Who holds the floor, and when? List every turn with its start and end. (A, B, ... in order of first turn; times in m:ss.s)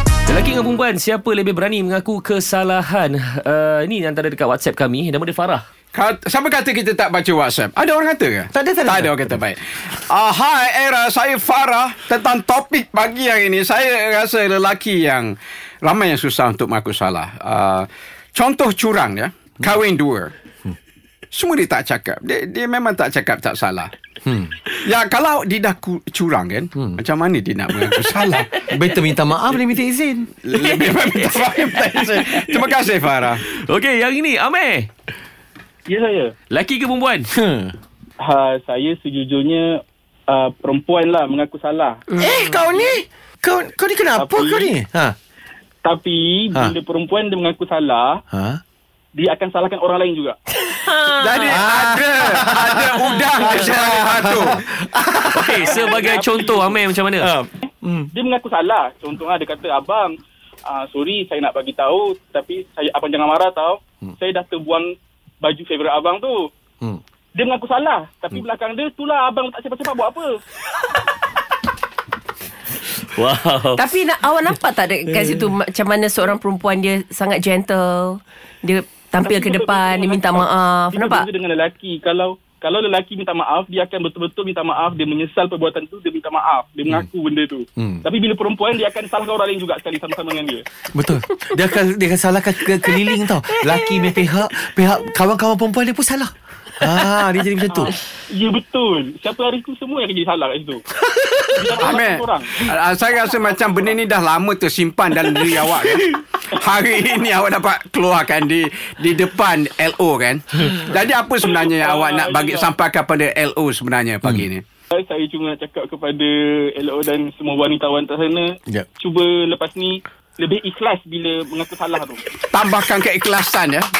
0:00.3-0:05.6 A
0:05.9-0:20.3 B
0:08.5-0:09.4 C
0:21.3-0:23.9 B
0:24.2-0:24.5 C
0:24.8-0:28.6 B
0:28.7-0:30.3 C
0:30.4-0:33.4 B
0:30.5-0:32.7 A
0:33.4-0:34.9 A
0:35.9-0:36.3 D
0:36.5-0:37.3 A
0:37.3-0:37.7 C
0:38.2-0:42.0 D
0:42.2-0:45.2 C
0:42.2-0:42.6 E
0:44.2-0:44.7 D
0:45.8-0:48.2 D
0:48.3-0:48.6 C
0:49.1-0:50.4 D
0:50.7-0:51.6 E
0:51.2-0:54.6 B
0:51.3-0:55.5 C
0:55.3-0:57.3 A
0:55.4-0:56.8 D
0:57.2-0:58.1 C
0:57.6-1:06.5 D
1:07.3-1:10.4 D
1:13.0-1:13.8 A
1:13.8-1:21.3 E
1:19.2-1:30.6 D
1:30.9-1:37.9 C
1:37.7-1:40.8 D
1:41.5-1:42.5 D
1:41.8-1:54.6 B
1:43.3-1:43.8 D
1:51.4-1:52.7 D
1:54.9-2:02.2 D
2:02.5-2:03.9 B